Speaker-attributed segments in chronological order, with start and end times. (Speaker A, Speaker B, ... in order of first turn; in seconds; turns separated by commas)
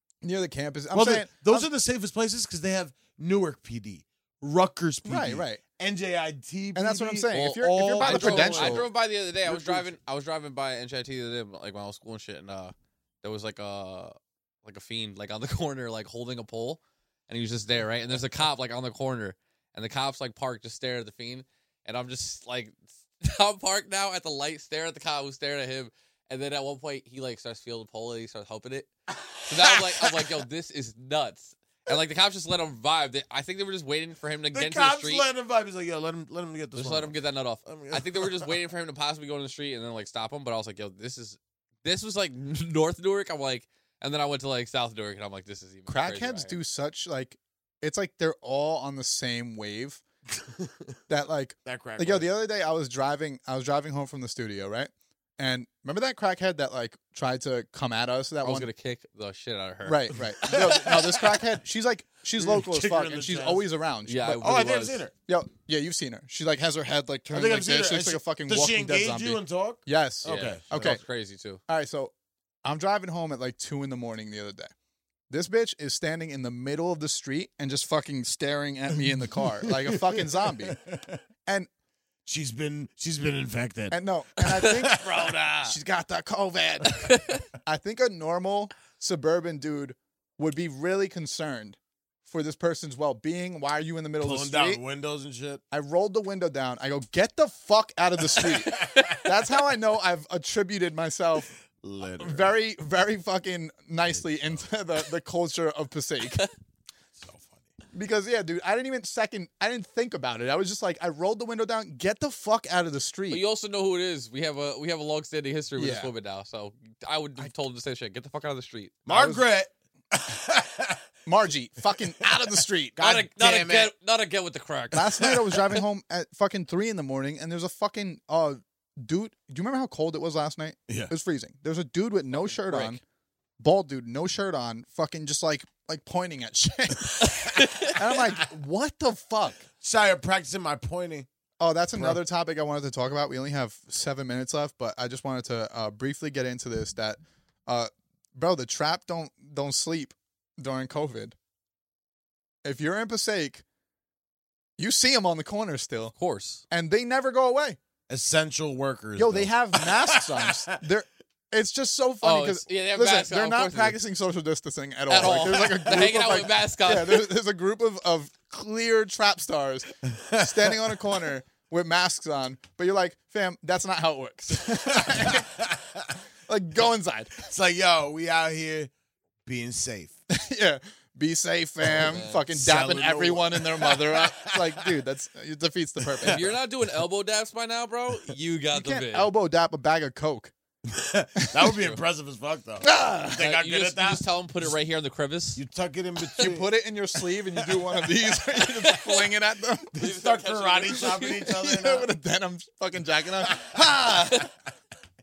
Speaker A: 0.2-1.7, Speaker B: 0.9-8.9, Speaker A: 5.0-5.6, Speaker A: 6.7-8.8, Speaker C: 7.3-28.9, Speaker B: 9.4-9.9, Speaker B: 29.1-30.3, Speaker C: 29.4-35.3, Speaker B: 34.5-38.5, Speaker C: 36.8-46.6, Speaker A: 45.9-50.0, Speaker B: 50.4-50.9, Speaker A: 51.1-58.7, Speaker B: 51.6-52.3, Speaker C: 58.4-60.6, Speaker A: 59.8-64.6, Speaker B: 60.4-61.4, Speaker B: 62.4-63.6, Speaker C: 64.0-65.0, Speaker B: 64.4-65.1, Speaker A: 65.3-71.0, Speaker B: 67.3-70.9, Speaker C: 70.2-71.6, Speaker A: 71.7-72.1, Speaker A: 72.6-74.7, Speaker A: 75.3-80.8, Speaker B: 79.2-81.2, Speaker B: 82.2-85.4, Speaker A: 83.9-85.0, Speaker C: 84.5-85.7, Speaker A: 85.6-94.8, Speaker C: 87.0-87.4, Speaker B: 94.2-95.6, Speaker A: 95.7-101.5, Speaker B: 98.4-99.2, Speaker B: 101.8-102.5, Speaker A: 102.2-106.4, Speaker B: 104.1-104.6, Speaker B: 107.2-107.7, Speaker A: 107.9-113.4, Speaker C: 113.3-119.2, Speaker A: 115.8-116.1, Speaker B: 119.0-121.0, Speaker A: 119.1-119.4, Speaker A: 121.2-123.1, Speaker B: 123.0-123.9, Speaker C: 123.0-125.4, Speaker A: 124.9-133.0, Speaker B: 125.2-125.5, Speaker C: 132.5-133.0, Speaker A: 133.6-137.3, Speaker B: 137.2-138.1, Speaker C: 137.5-138.0, Speaker A: 137.8-139.7, Speaker B: 139.8-141.3, Speaker A: 141.6-151.3, Speaker A: 152.6-153.6, Speaker A: 154.8-156.1, Speaker C: 156.2-156.6, Speaker A: 156.7-157.8, Speaker B: 158.1-160.8, Speaker A: 159.2-175.5, Speaker C: 162.2-163.9, Speaker C: 165.1-167.3, Speaker B: 165.2-165.9, Speaker B: 170.0-171.0, Speaker B: 174.8-176.2, Speaker A: 176.5-177.3, Speaker B: 177.4-178.9, Speaker B: 179.4-180.2, Speaker A: 180.3-186.6, Speaker C: 181.9-182.4, Speaker B: 182.5-184.9, Speaker B: 186.1-186.3, Speaker C: 186.2-189.3, Speaker A: 188.7-190.5, Speaker B: 190.9-194.7, Speaker A: 192.8-193.4, Speaker C: 193.4-195.6, Speaker B: 195.6-196.7, Speaker A: 196.4-199.9, Speaker C: 198.8-199.3, Speaker B: 199.9-202.1, Speaker C: 200.0-201.4, Speaker A: 201.4-204.5, Speaker B: 203.5-203.8